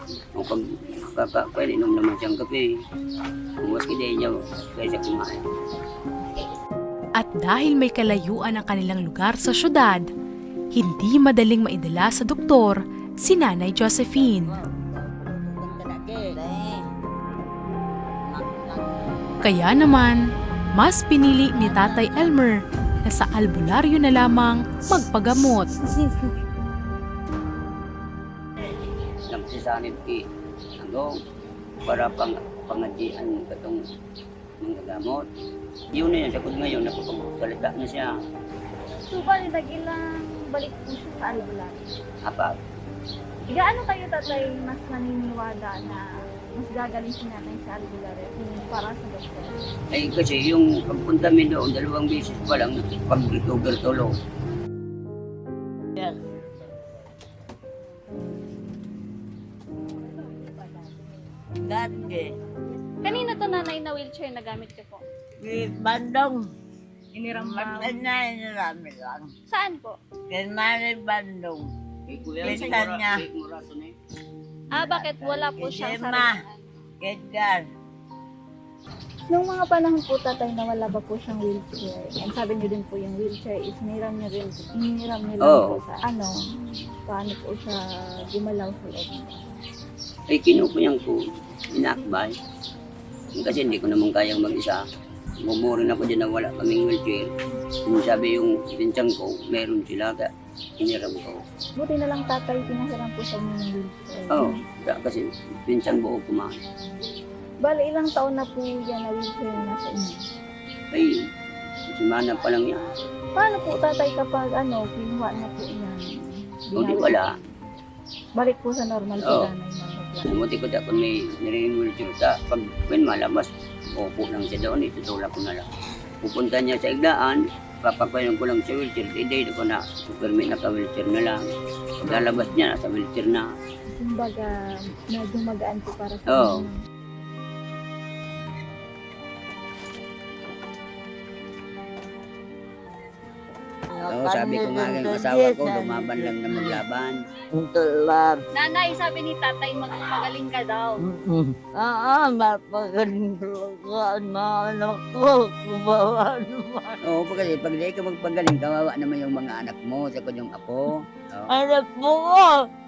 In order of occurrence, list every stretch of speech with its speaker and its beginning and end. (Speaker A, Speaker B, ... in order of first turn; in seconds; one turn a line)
Speaker A: 0.3-2.6
Speaker A: 3.6-5.4
Speaker B: 7.2-10.1
Speaker B: 10.7-14.5
Speaker C: 14.4-15.7
Speaker A: 15.5-16.3
Speaker C: 16.3-16.9
Speaker C: 18.3-19.1
Speaker B: 19.4-20.2
Speaker B: 20.8-25.7
Speaker C: 21.5-22.3
Speaker A: 29.3-30.2
Speaker A: 30.8-31.1
Speaker A: 31.9-33.8
Speaker A: 34.6-35.2
Speaker A: 35.9-38.1
Speaker D: 39.1-41.9
Speaker A: 42.2-42.5
Speaker D: 43.5-46.0
Speaker D: 46.5-49.6
Speaker A: 49.9-54.1
Speaker C: 61.6-62.3
Speaker E: 63.0-65.0
Speaker C: 65.4-66.4
Speaker E: 67.2-68.0
Speaker C: 67.3-69.3
Speaker E: 69.5-69.9
Speaker C: 70.3-71.6
Speaker A: 72.1-73.9
Speaker C: 72.4-73.2
Speaker E: 74.7-76.7
Speaker C: 75.5-76.4
Speaker C: 77.0-77.6
Speaker D: 79.3-86.3
Speaker A: 85.4-85.8
Speaker D: 87.1-89.5
Speaker A: 90.3-91.2
Speaker A: 91.7-92.3
Speaker A: 93.3-94.8
Speaker A: 95.4-97.3
Speaker A: 97.8-100.3
Speaker A: 100.8-101.4
Speaker D: 101.8-104.5
Speaker A: 104.3-106.6
Speaker D: 107.6-110.2
Speaker A: 112.0-112.9
Speaker D: 113.3-116.1
Speaker A: 116.7-117.3
Speaker D: 116.8-117.2
Speaker D: 118.3-120.3
Speaker A: 119.2-119.5
Speaker A: 120.2-125.6
Speaker A: 126.2-131.4
Speaker A: 132.0-133.4
Speaker D: 133.9-134.5
Speaker D: 135.1-136.7
Speaker A: 136.3-136.6
Speaker C: 144.0-146.8
Speaker A: 144.1-147.2
Speaker C: 147.5-148.4
Speaker E: 148.6-151.0
Speaker C: 151.0-157.0
Speaker A: 157.1-161.5
Speaker C: 161.5-162.5